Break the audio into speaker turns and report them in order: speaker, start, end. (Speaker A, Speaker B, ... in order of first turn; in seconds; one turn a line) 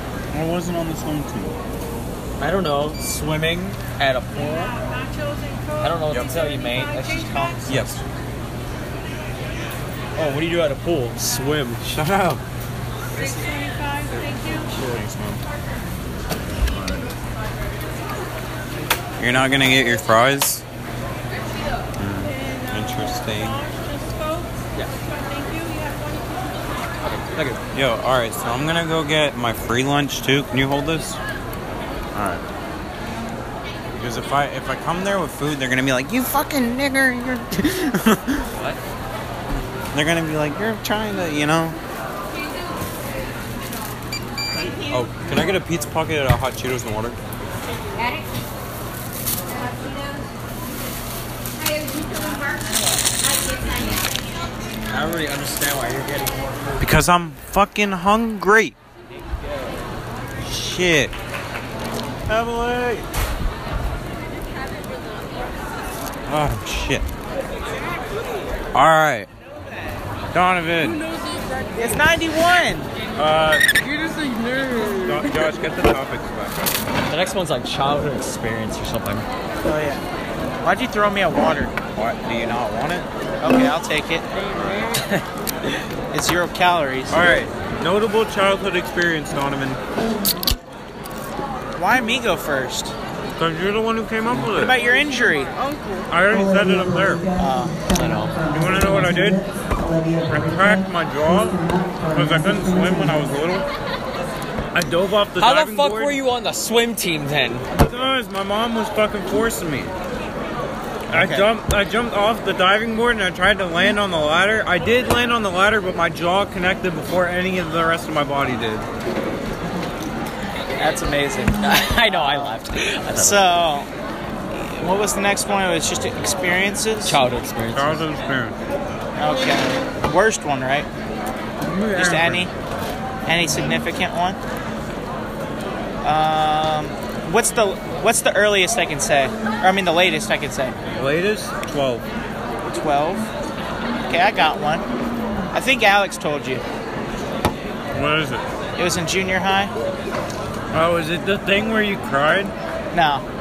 Speaker A: 0.3-1.6
Speaker B: 2.4-4.8
Speaker B: 5.8-7.9
Speaker A: 7.7-8.0
Speaker B: 10.2-11.8
Speaker A: 11.8-12.4
Speaker B: 13.2-13.7
Speaker B: 14.5-15.4
Speaker A: 14.7-15.3
Speaker A: 16.7-17.1
Speaker A: 19.2-20.6
Speaker A: 22.0-23.6
Speaker B: 27.0-27.6
Speaker A: 27.7-31.2
Speaker A: 32.1-32.5
Speaker A: 34.0-38.5
Speaker B: 38.5-38.8
Speaker A: 39.9-41.8
Speaker A: 44.9-47.2
Speaker A: 53.6-54.1
Speaker B: 54.9-56.9
Speaker A: 56.8-58.8
Speaker A: 60.4-61.1
Speaker A: 62.3-63.1
Speaker A: 66.3-67.1
Speaker A: 68.7-69.3
Speaker A: 70.3-71.0
Speaker C: 71.8-72.9
Speaker A: 73.2-73.7
Speaker A: 74.9-76.7
Speaker B: 77.1-79.3
Speaker C: 79.6-80.0
Speaker C: 80.6-81.8
Speaker A: 82.0-83.1
Speaker C: 83.4-84.3
Speaker B: 84.4-85.8
Speaker A: 84.5-84.9
Speaker C: 86.1-87.3
Speaker A: 87.1-89.8
Speaker C: 91.8-93.0
Speaker A: 93.3-94.8
Speaker C: 94.5-95.6
Speaker A: 96.1-97.3
Speaker C: 97.3-97.9
Speaker B: 97.9-98.5
Speaker A: 98.5-99.5
Speaker A: 100.2-103.7
Speaker A: 104.7-106.2
Speaker B: 105.4-107.7
Speaker A: 107.7-109.9
Speaker C: 111.1-111.5
Speaker A: 111.1-118.9
Speaker C: 120.8-123.9
Speaker B: 121.6-123.5
Speaker C: 124.5-127.2
Speaker B: 127.0-128.1
Speaker A: 127.7-128.6
Speaker C: 129.2-130.9
Speaker A: 131.6-132.5
Speaker C: 131.9-132.5
Speaker C: 133.3-134.4
Speaker C: 136.0-140.8
Speaker A: 140.9-142.1
Speaker C: 142.6-143.3
Speaker C: 144.1-144.9
Speaker C: 145.5-146.6
Speaker A: 147.9-148.4
Speaker C: 148.8-149.7
Speaker A: 150.7-152.5
Speaker C: 152.9-153.2